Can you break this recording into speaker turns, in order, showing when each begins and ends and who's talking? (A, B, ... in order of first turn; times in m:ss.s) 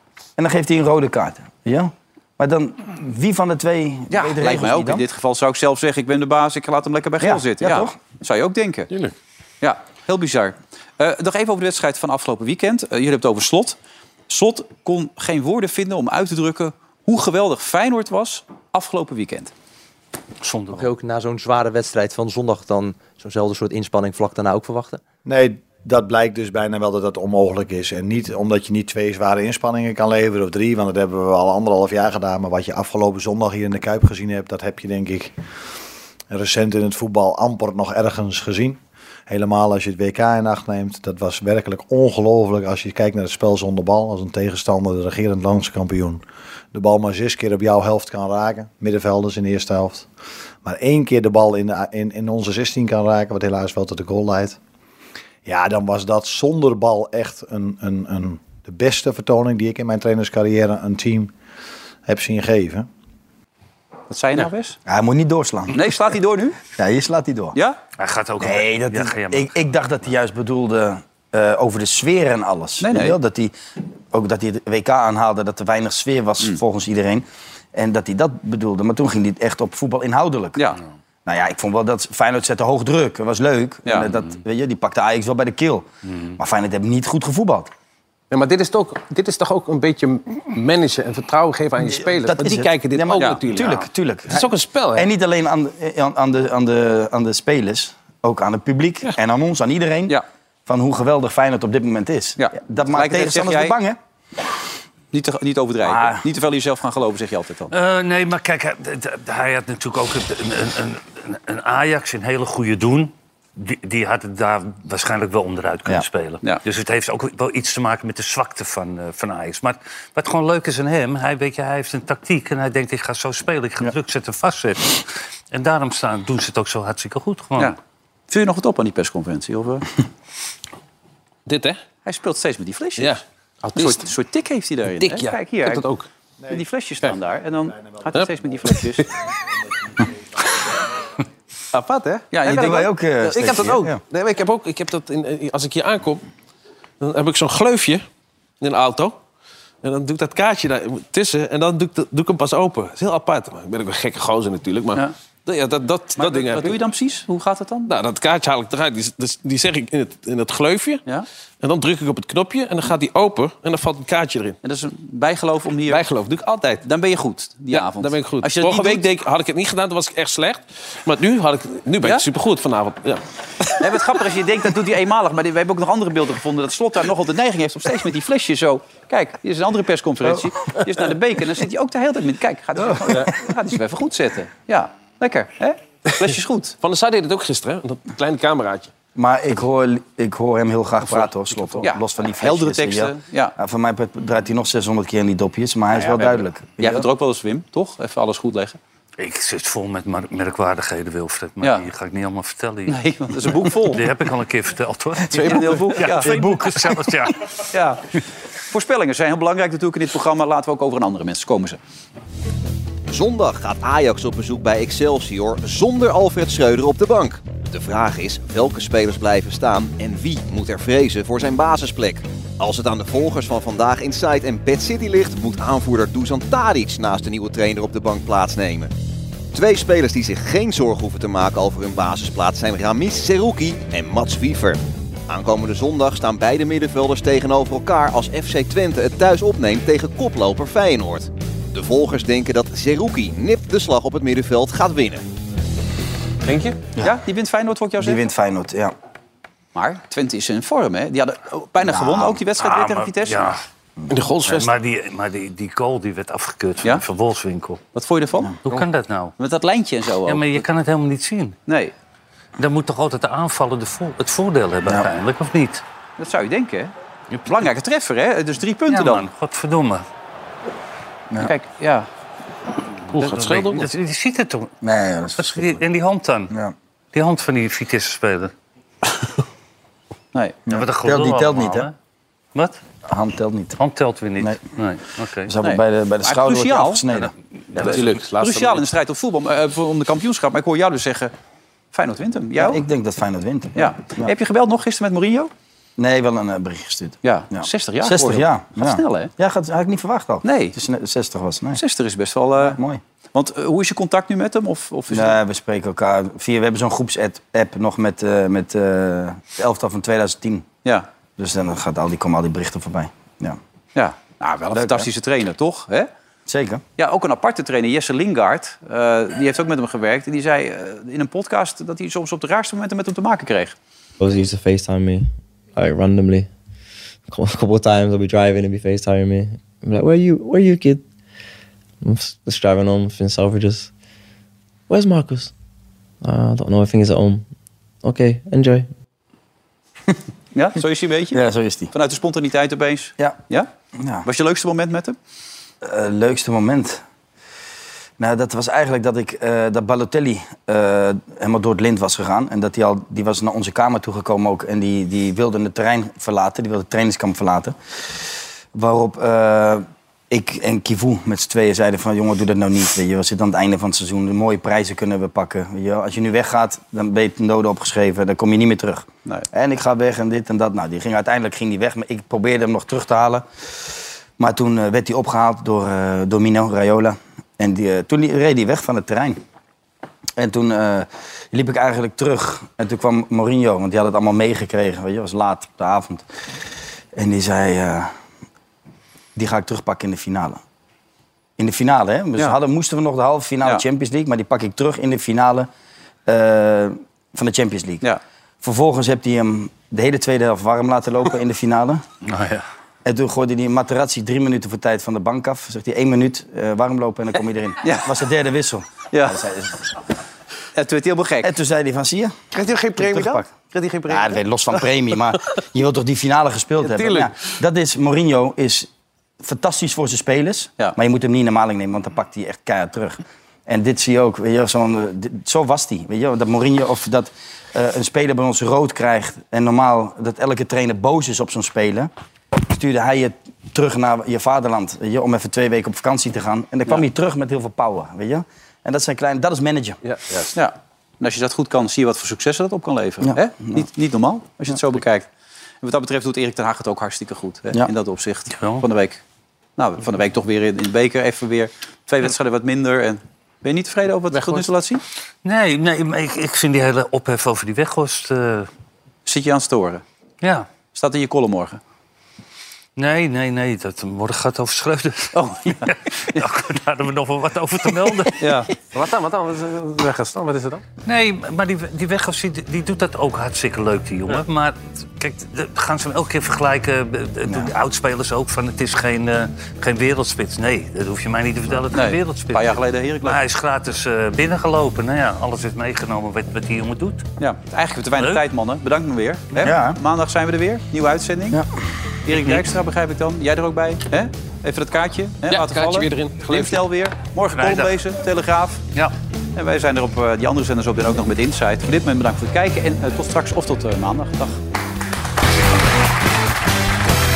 0:00.4-0:05.0 A
0:04.1-0:08.9 B
0:07.2-0:08.0 A
0:08.9-0:09.1 C
0:09.6-0:13.8 B
0:14.3-0:19.5 B
0:20.4-0:20.9 D
0:20.7-0:25.0 E
0:25.2-0:35.3 F
0:36.3-0:46.2 F
0:46.7-0:50.1 F
0:50.6-0:54.6 F
0:55.4-1:01.3 F
1:02.0-1:02.9 F
1:04.1-1:04.8 B
1:04.9-1:05.9 A
1:05.7-1:06.6 B
1:06.8-1:07.6 A
1:08.0-1:09.5 D
1:08.4-1:13.5 A
1:12.8-1:13.2 B
1:14.1-1:20.6 A
1:20.6-1:20.8 B
1:21.3-1:27.7 A
1:23.9-1:24.1 B
1:28.3-1:33.8 C
1:31.8-1:44.0 A
1:34.3-1:35.1 C
1:42.4-1:43.8 B
1:45.1-1:47.7 B
1:45.8-1:46.3 A
1:47.7-2:07.7 D
2:08.3-2:09.9 B
2:11.4-2:11.8 C
2:12.0-2:13.2 B
2:13.0-2:14.1 C
2:13.8-2:15.9 B
2:15.0-2:16.1 C
2:16.5-2:19.0 B
2:18.1-2:19.0 C
2:21.7-2:26.2 C
2:22.3-2:22.9 B
2:22.4-2:24.0 A
2:27.0-2:28.0 C
2:28.6-2:29.2 C
2:29.8-2:36.8 C
2:36.2-2:37.9 B
2:37.9-2:41.0 C
2:41.6-2:44.6 C
2:44.6-2:46.0 B
2:45.9-2:46.8 C
2:46.8-2:49.0 B
2:47.7-2:53.2 C
2:53.8-3:06.8 B
3:03.0-3:03.3 C
3:06.8-3:08.9 C
3:09.2-3:17.1 A
3:11.8-3:13.6 B
3:15.9-3:18.8 B
3:19.2-3:23.0 D
3:22.9-3:24.0 B
3:23.8-3:27.4 D
3:25.3-3:26.1 C
3:25.4-3:26.3 B
3:26.2-3:27.0 A
3:27.7-3:28.0 B
3:28.7-3:31.8 B
3:33.1-3:48.9 G
3:49.5-4:05.2 G
4:06.4-4:06.8 C
4:07.0-4:08.2 B
4:08.0-4:08.9 A
4:09.7-4:13.6 B
4:11.8-4:12.4 A
4:12.6-4:13.6 D
4:14.1-4:14.7 C
4:14.5-4:17.8 D
4:17.9-4:18.6 B
4:18.6-4:19.3 D
4:19.4-4:20.6 B
4:20.3-4:21.6 D
4:21.7-4:21.9 B
4:22.6-4:25.8 D
4:26.2-4:26.9 B
4:27.4-4:29.3 B
4:28.9-4:30.0 D
4:31.4-4:32.1 B
4:33.1-4:33.9 C
4:33.1-4:34.7 D
4:34.8-4:35.8 A
4:35.3-4:36.6 D
4:37.1-4:38.5 D
4:40.3-4:40.6 B
4:40.7-4:41.9 A
4:40.7-4:41.9 D
4:43.0-4:43.8 A
4:43.8-4:45.5 D
4:45.4-4:47.3 A
4:45.6-4:47.0 B
4:47.7-4:48.0 D
4:47.7-4:48.9 C
4:47.7-4:51.3 B
4:51.9-4:52.8 B
4:52.6-4:54.3 A
4:53.8-4:55.5 B
4:56.0-5:01.8 A
4:57.2-4:59.3 B
5:00.4-5:00.7 B
5:01.8-5:02.8 B
5:02.6-5:03.0 A
5:03.3-5:05.4 B
5:05.1-5:10.7 A
5:11.4-5:13.6 A
5:14.0-5:16.1 B
5:14.7-5:15.1 A
5:16.5-5:16.8 A
5:17.0-5:23.7 B
5:24.2-5:26.5 H
5:27.3-5:31.0 H
5:32.0-5:33.9 H
5:34.9-5:35.5 H
5:36.2-5:37.4 H
5:38.0-5:38.9 H
5:40.6-5:41.4 B
5:41.3-5:41.9 A
5:41.9-5:43.7 B
5:44.0-5:44.3 A
5:44.2-5:45.2 B
5:45.8-5:47.0 A
5:48.2-5:57.8 A
5:58.7-6:13.4 A
6:14.4-6:19.4 A
6:20.4-6:26.3 A
6:27.1-6:28.1 A
6:29.3-6:30.6 A
6:31.6-6:35.7 A
6:36.3-6:38.0 A
6:38.6-6:42.0 A
6:42.2-6:42.6 D
6:43.0-6:49.8 A
6:47.8-6:48.1 B
6:49.1-6:49.4 B
6:50.7-6:51.5 B
6:51.4-6:52.3 A
6:52.5-6:54.4 C
6:53.0-6:53.5 A
6:54.0-6:58.9 A
6:56.8-6:57.3 C
6:59.4-7:20.0 A
7:20.0-7:20.5 C
7:20.6-7:25.3 B
7:23.2-7:23.9 A
7:25.8-7:29.2 B
7:29.8-7:35.0 B
7:34.3-7:34.7 C
7:35.4-7:38.7 D
7:39.3-7:40.0 B
7:40.4-7:40.7 D
7:40.9-7:41.8 B
7:43.0-7:48.4 D
7:45.3-7:46.4 B
7:48.4-7:48.6 B
7:48.4-7:50.8 C
7:51.0-8:07.3 D
8:01.9-8:03.4 B
8:07.4-8:11.6 B
8:09.6-8:10.0 A
8:12.3-8:18.9 B
8:12.3-8:12.7 D
8:15.5-8:16.8 C
8:17.6-8:17.9 D
8:19.6-8:24.6 B